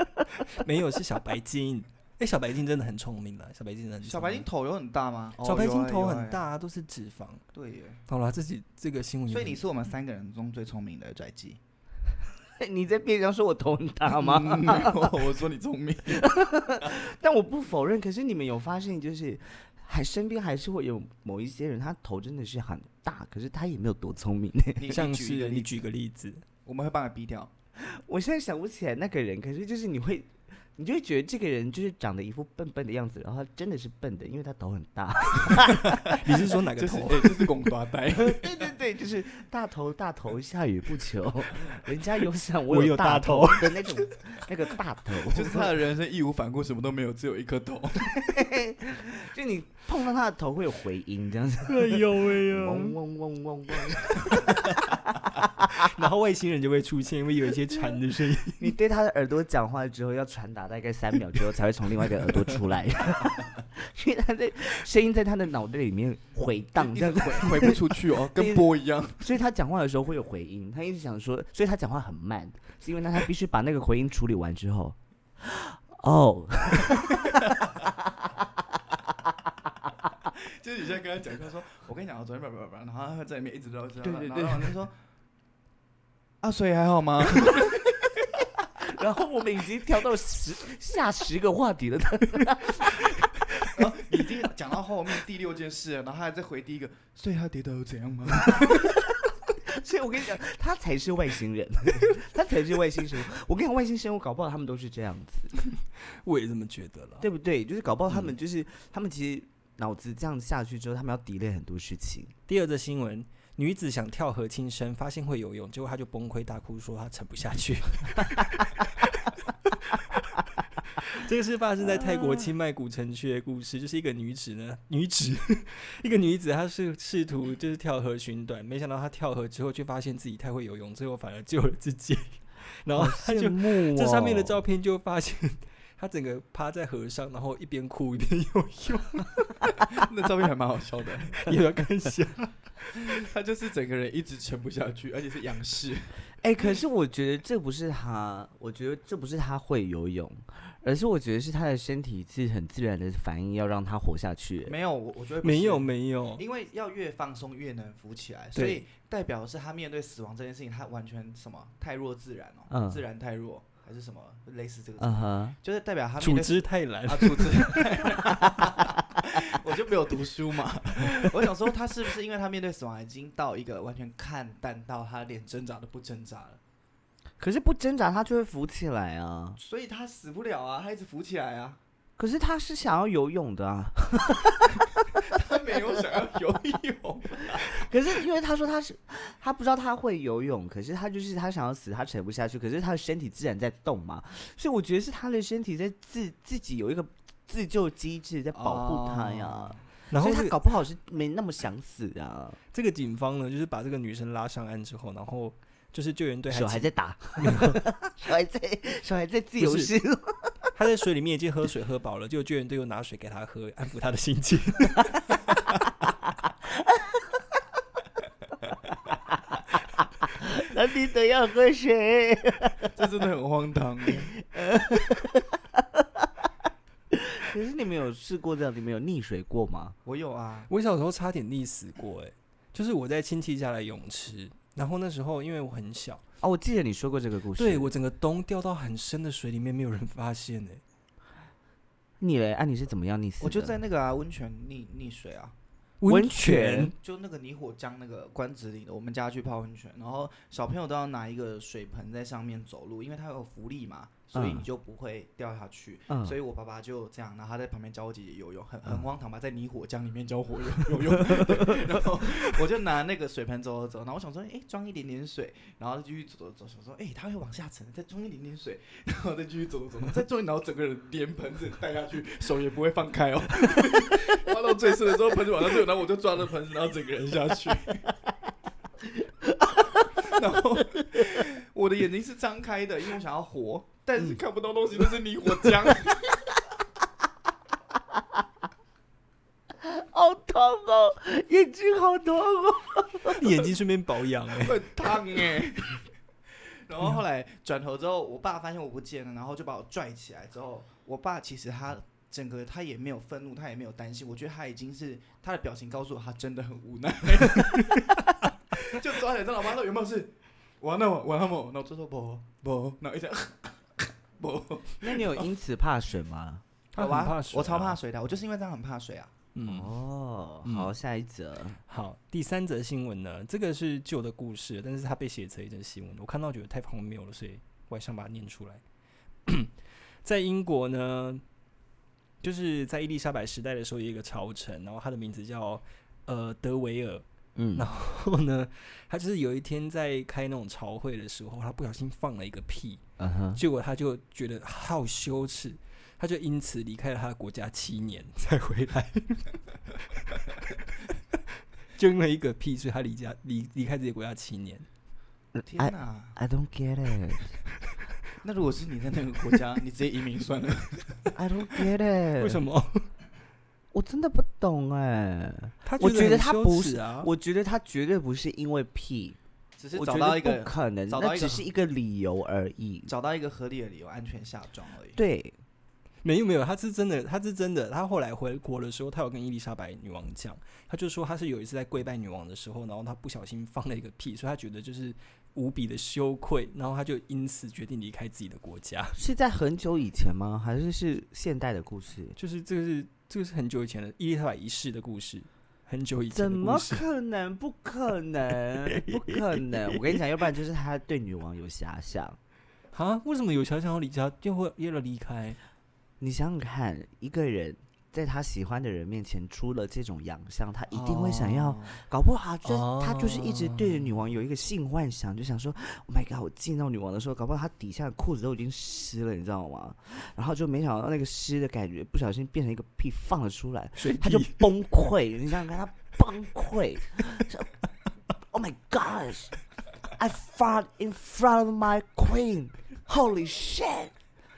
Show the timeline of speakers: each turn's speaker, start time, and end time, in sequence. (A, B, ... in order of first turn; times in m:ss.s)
0:00.4-0:04.5 A
0:04.0-0:06.4 B
0:05.4-0:07.4 A
0:07.5-0:08.0 B
0:08.1-0:09.6 A
0:09.3-0:11.6 B
0:12.6-0:15.1 C
0:14.1-0:16.2 B
0:16.1-0:24.9 C
0:24.8-0:25.7 B
0:24.9-0:26.4 A
0:26.6-0:27.5 B
0:27.8-0:36.2 C
0:35.5-0:37.7 A
0:36.8-0:38.7 B
0:38.1-0:45.7 C
0:42.7-0:44.0 A
0:45.3-0:48.1 B
0:48.1-0:55.9 C
0:51.7-0:53.0 A
0:54.4-0:54.7 A
0:55.6-0:58.8 A
0:58.6-1:19.0 C
1:06.8-1:09.2 B
1:20.2-1:25.0 B
1:24.0-1:24.7 C
1:26.4-1:27.7 B
1:28.8-1:33.2 C
1:33.7-1:38.9 B
1:38.5-1:38.8 C
1:39.7-1:45.5 C
1:46.1-1:47.3 A
1:47.2-1:52.3 C
1:52.5-2:19.8 A
2:02.0-2:02.3 C
2:12.9-2:14.6 C
2:19.9-2:21.4 B
2:21.4-2:23.2 A
2:23.1-2:26.1 B
2:26.4-2:34.7 C
2:34.7-2:56.6 B
2:35.4-2:36.4 A
2:38.6-2:38.8 C
2:42.7-2:43.0 C
2:45.0-2:45.6 C
2:46.2-2:48.1 A
2:48.5-2:48.8 C
2:57.4-2:59.6 C
2:59.6-3:01.8 B
3:02.2-3:04.8 C
3:05.2-3:07.7 B
3:07.5-3:22.6 C
3:18.5-3:19.8 B
3:20.1-3:20.6 A
3:22.7-3:27.9 A
3:26.5-3:30.5 C
3:29.6-3:29.9 A
3:30.8-3:35.5 A
3:36.8-3:37.2 C
3:39.1-3:42.9 C
3:43.0-3:44.3 B
3:44.4-3:46.3 C
3:47.1-3:50.0 C
3:50.1-3:50.7 B
3:50.7-3:56.2 A
3:56.4-3:57.9 C
3:57.6-4:00.8 A
4:02.2-4:03.8 C
4:03.4-4:05.6 B
4:06.0-4:06.9 A
4:06.1-4:06.9 C
4:07.0-4:38.1 B
4:14.3-4:14.6 C
4:16.1-4:16.4 C
4:39.4-4:40.2 C
4:40.2-4:46.4 B
4:49.8-4:53.4 C
4:53.2-4:54.8 A
4:54.6-4:56.0 B
4:56.5-5:08.2 B
5:08.7-5:15.5 B
5:15.0-5:16.6 C
5:16.9-5:18.0 A
5:17.0-5:19.3 B
5:19.6-5:19.9 A
5:19.6-5:21.8 C
5:20.6-5:20.9 A
5:21.9-5:28.8 A
5:29.5-5:29.7 A
5:30.2-5:31.4 A
5:32.4-5:43.0 A
5:37.6-5:37.9 C
5:43.2-5:43.6 C
5:43.6-5:50.7 A
5:52.0-5:54.9 A
5:55.6-5:57.6 C
5:55.7-5:56.4 B
5:58.4-6:01.3 B
6:01.4-6:02.6 C
6:02.4-6:03.1 A
6:03.9-6:09.4 C
6:05.8-6:07.3 A
6:09.8-6:11.7 B
6:09.9-6:13.1 C
6:13.1-6:15.2 B
6:15.2-6:15.6 C
6:16.2-6:29.2 A
6:29.2-6:32.4 C
6:32.4-6:37.0 A
6:36.3-6:42.4 C
6:39.0-6:40.0 A
6:42.9-6:45.6 A
6:46.2-7:07.7 C
6:50.9-6:52.0 B
6:52.6-6:54.1 A
7:04.0-7:04.7 A
7:08.5-7:09.6 C
7:10.1-7:14.2 C